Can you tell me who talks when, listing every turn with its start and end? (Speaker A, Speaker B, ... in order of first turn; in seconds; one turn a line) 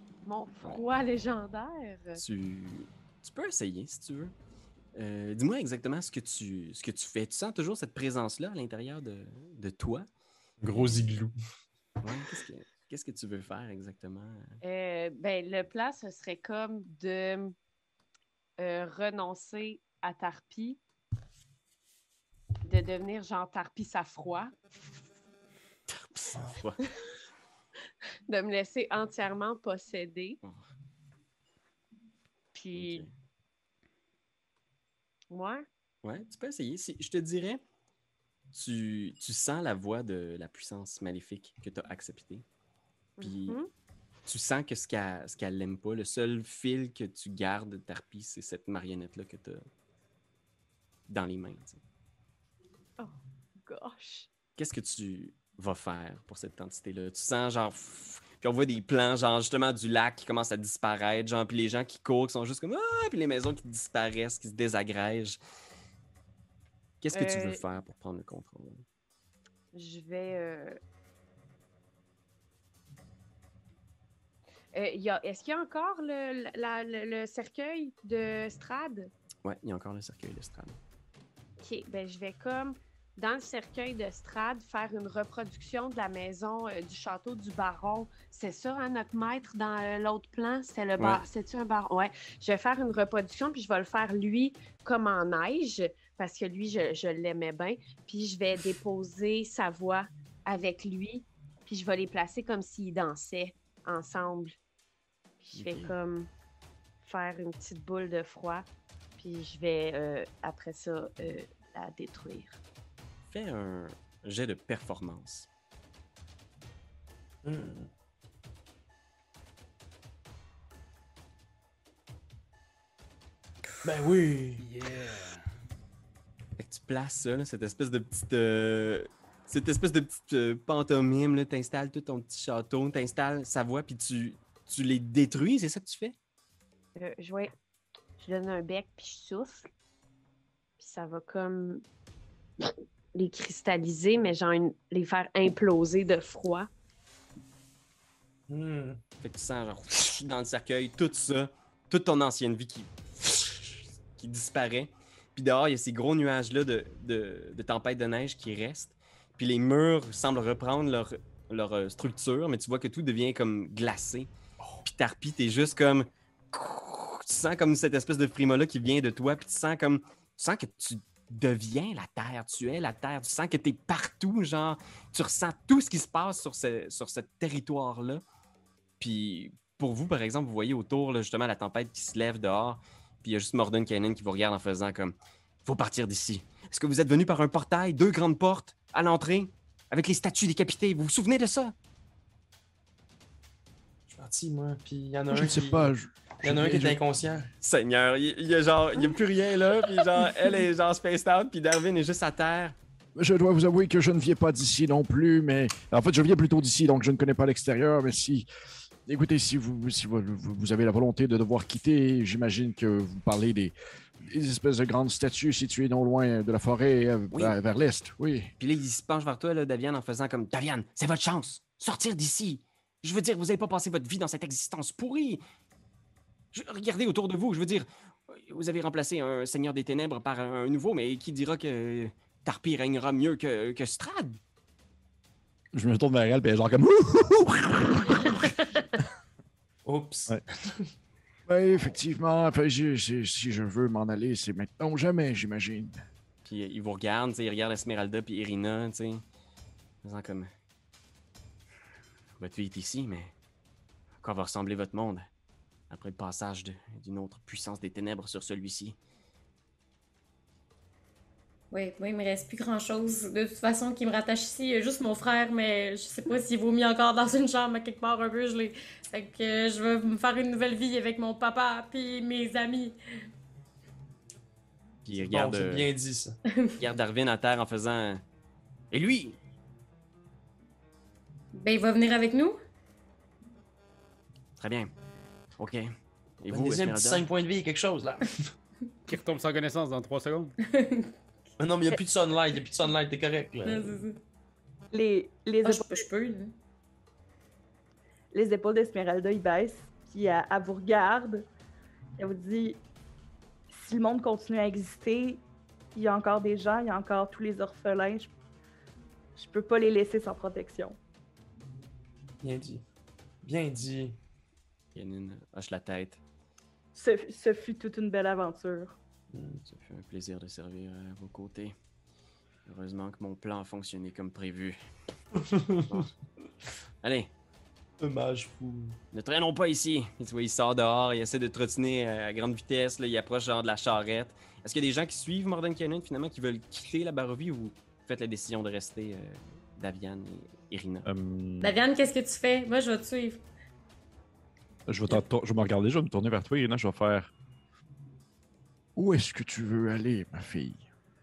Speaker A: 0.2-2.2
Speaker B: 2.2-4.3
Speaker B: 5.0-10.1
Speaker C: 10.6-11.3
Speaker B: 10.7-11.1
Speaker B: 12.0-14.6
Speaker A: 14.6-17.5
Speaker A: 18.6-20.8
Speaker A: 22.6-24.5
Speaker B: 25.9-26.8
Speaker A: 28.3-30.4
Speaker A: 32.5-33.1
Speaker B: 32.7-33.1
Speaker A: 35.3-35.7
Speaker B: 36.0-37.6
Speaker B: 38.5-42.5
Speaker A: 43.2-43.7
Speaker B: 43.2-43.6
Speaker B: 44.3-49.6
Speaker B: 51.1-51.8
Speaker A: 53.7-54.3
Speaker B: 54.6-65.4
Speaker B: 67.0-68.8
Speaker A: 67.1-67.6
Speaker A: 69.7-70.8
Speaker A: 74.7-79.1
Speaker B: 79.5-80.8
Speaker A: 81.6-104.5
Speaker B: 91.0-91.2
Speaker A: 105.4-106.3
Speaker B: 105.5-106.0
Speaker A: 107.0-108.7
Speaker A: 109.2-112.6
Speaker B: 113.3-115.5
Speaker C: 117.4-117.9
Speaker C: 123.8-124.6
Speaker D: 124.6-125.4
Speaker B: 126.6-136.2
Speaker A: 137.0-137.5
Speaker A: 138.2-139.7
Speaker A: 140.8-141.8
Speaker A: 142.6-146.7
Speaker C: 148.5-149.0
Speaker B: 149.2-164.3
Speaker B: 164.8-178.2
Speaker B: 179.0-191.7
Speaker C: 194.1-197.5
Speaker E: 195.3-197.0
Speaker B: 197.6-202.8
Speaker E: 203.2-208.5
Speaker E: 209.1-213.7
Speaker E: 214.3-218.5
Speaker B: 218.6-225.4
Speaker B: 226.5-234.4
Speaker F: 235.7-238.6
Speaker C: 239.9-240.7
Speaker E: 241.5-246.0
Speaker B: 246.4-249.2
Speaker B: 250.0-250.5
Speaker B: 252.4-253.3
Speaker B: 254.2-255.3
Speaker B: 255.9-259.0
Speaker G: 261.7-272.9
Speaker B: 275.1-275.9
Speaker C: 275.3-276.4
Speaker B: 276.8-278.2
Speaker B: 278.9-279.4
Speaker G: 281.6-282.6
Speaker B: 284.6-284.9
Speaker B: 285.6-285.9
Speaker B: 286.4-287.2
Speaker C: 286.5-288.5
Speaker D: 289.1-290.6
Speaker G: 290.6-291.1
Speaker C: 291.6-294.1
Speaker G: 293.6-294.2
Speaker H: 294.9-296.1
Speaker G: 295.6-296.5
Speaker H: 298.3-301.5
Speaker H: 302.2-302.8
Speaker H: 303.7-305.4
Speaker H: 305.9-308.3
Speaker H: 309.4-311.0
Speaker C: 312.4-312.9
Speaker C: 313.4-314.2
Speaker B: 314.9-316.2
Speaker H: 316.9-319.0
Speaker C: 319.3-319.6
Speaker B: 319.7-321.8
Speaker B: 322.7-324.8
Speaker C: 325.4-325.9
Speaker B: 327.0-327.3
Speaker C: 328.0-329.0
Speaker B: 329.1-341.1
Speaker F: 341.1-341.8
Speaker G: 341.6-343.4
Speaker F: 344.9-347.3
Speaker E: 349.0-350.9